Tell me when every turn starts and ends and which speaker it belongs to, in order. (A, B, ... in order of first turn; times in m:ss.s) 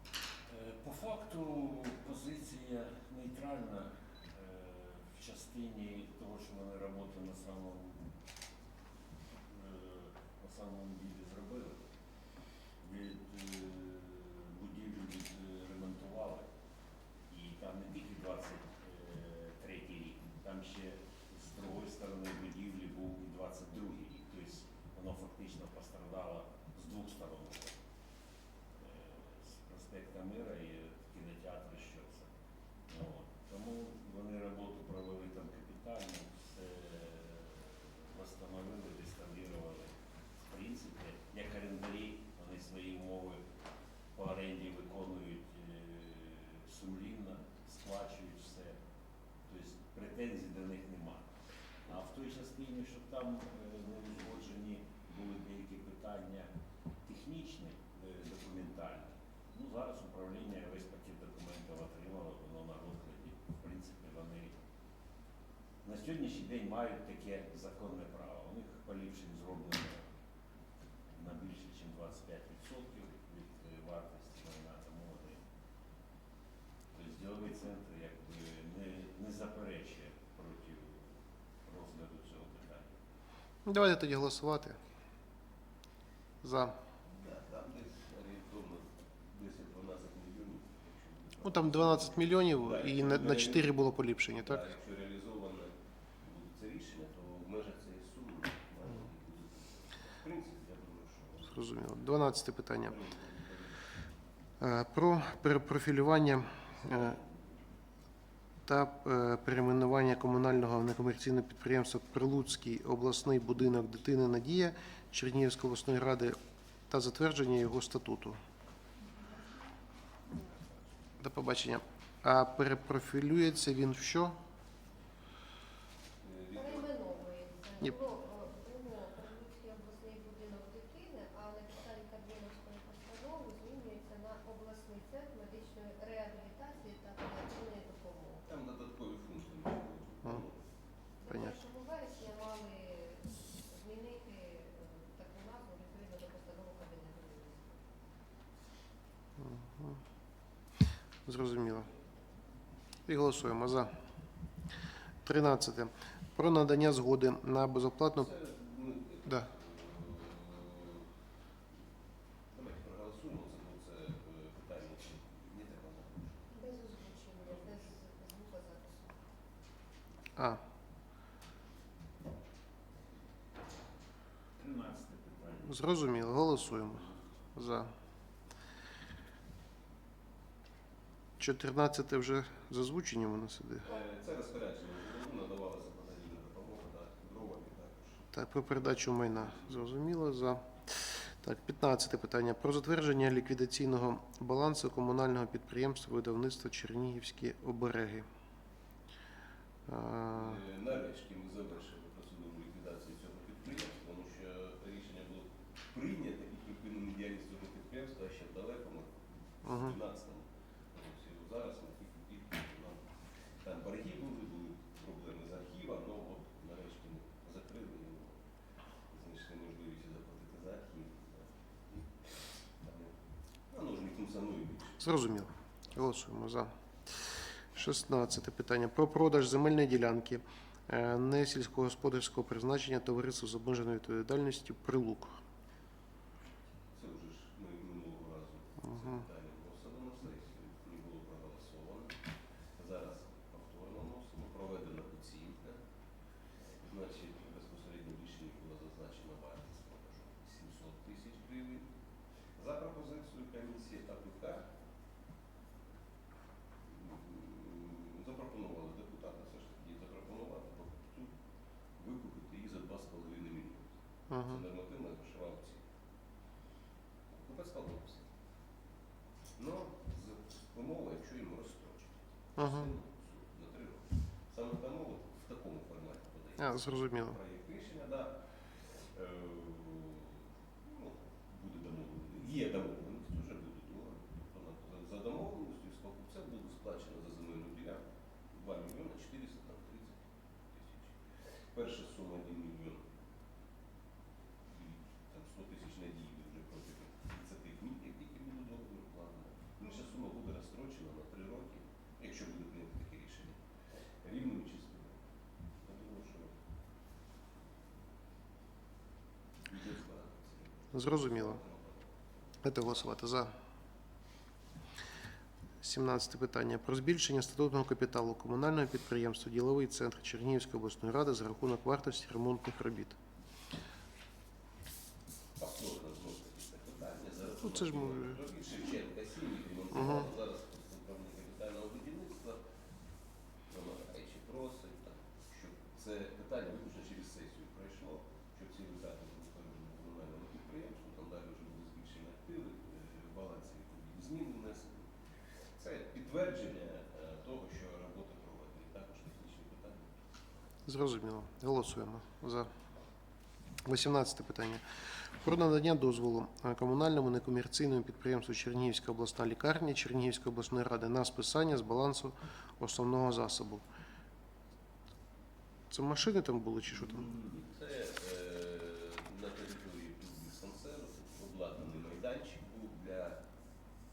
0:00.5-0:08.1 A
0:09.5-0:11.8 A
0:12.8-0:16.5 A
0:17.3-0:27.7 A
0:28.8-0:32.3 A
0:32.9-0:43.4 A
0:44.2-0:48.8 A
0:49.5-0:51.3 A
0:51.9-0:56.5 A
0:57.0-1:04.5 A
1:05.8-1:10.1 A
1:11.1-1:15.4 A
1:16.9-1:21.1 A
1:21.6-1:23.0 A
1:23.6-1:24.8 B
1:26.4-1:26.8 B
1:27.1-1:41.6 C
1:31.4-1:34.6 B
1:41.5-1:43.0 B
1:42.8-1:43.8 C
1:44.6-1:47.2 B
1:46.8-1:47.6 C
1:48.7-1:56.4 B
1:56.9-1:58.4 B
2:01.2-2:04.4 B
2:06.2-2:06.9 C
2:06.5-2:18.4 D
2:18.5-2:20.6 C
2:21.2-2:27.8 D
2:21.3-2:21.6 B
2:29.4-2:30.0 B
2:31.3-2:31.9 B
2:33.1-2:33.9 B
2:35.2-2:38.3 B
2:38.2-2:41.0 C
2:42.5-2:46.5 C
2:46.5-2:49.2 D
2:47.5-2:47.9 C
2:54.6-2:55.8 A
2:55.6-2:57.9 B
3:01.4-3:03.9 B
3:03.8-3:08.2 C
3:08.3-3:18.3 B
3:19.9-3:20.6 B
3:20.3-3:33.1 C
3:29.6-3:30.0 B
3:33.6-3:38.4 C
3:39.1-3:42.1 C
3:42.8-3:43.2 C
3:43.7-3:45.0 C
3:45.0-3:55.4 B
3:56.9-4:02.2 C
3:58.8-3:59.2 B
4:02.8-4:05.8 C
4:06.7-4:11.9 C
4:12.6-4:14.7 C
4:16.9-4:21.3 C
4:22.0-4:25.8 C
4:24.3-4:24.6 B
4:27.3-4:28.3 C
4:29.6-4:51.2 C
4:32.6-4:32.9 B
4:36.6-4:37.4 B
4:51.7-4:53.1 C
4:54.7-5:03.6 C
5:04.2-5:05.2 C
5:05.8-5:06.5 C
5:09.6-5:12.6 C
5:10.9-5:11.6 B
5:12.6-5:13.5 B
5:15.8-5:23.2 B
5:25.6-5:32.6 C
5:27.6-5:28.4 B
5:29.9-5:30.3 B
5:33.7-5:45.1 C
5:45.8-5:50.1 C
5:50.9-5:52.7 B
5:53.8-5:54.8 B
5:55.4-6:03.8 B
6:05.9-6:07.3 B
6:07.0-6:13.4 C